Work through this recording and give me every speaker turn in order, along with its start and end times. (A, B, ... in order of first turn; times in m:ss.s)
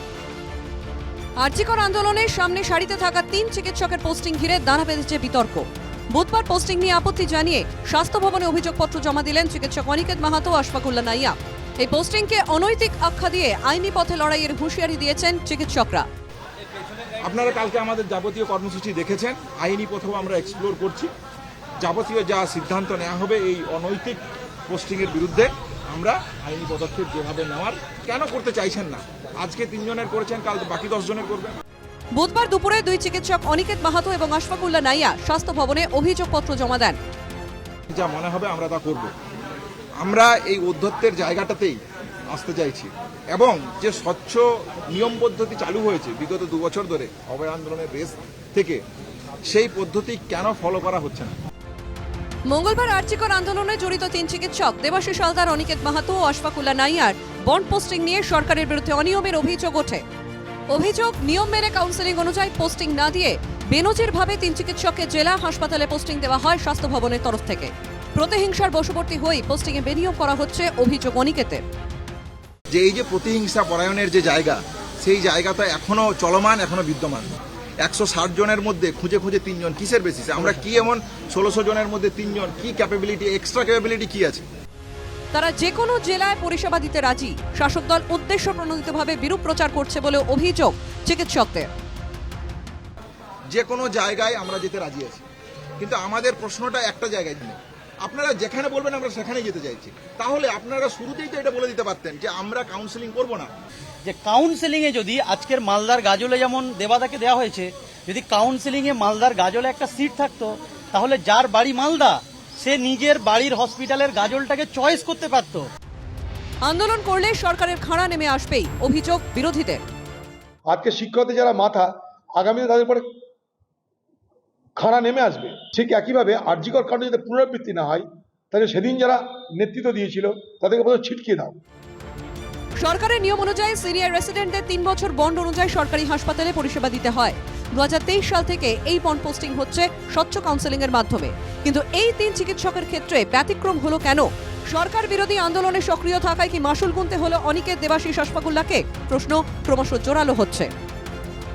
0:01.4-0:16.1 A
0:17.2-0:21.1 B
0:21.8-0:31.6 B
0:32.2-0:37.0 A
0:37.9-0:39.1 B
0:40.0-0:48.8 B
0:49.5-0:51.4 B
0:52.5-1:00.0 A
1:00.7-1:11.6 A
1:12.7-1:17.3 B
1:17.8-1:24.5 B
1:25.3-1:31.7 A
1:33.5-1:35.2 B
1:35.8-1:43.5 B
1:44.0-1:55.7 C
1:56.6-1:59.8 A
2:00.7-2:03.1 D
2:04.8-2:11.6 D
2:12.8-2:30.7 A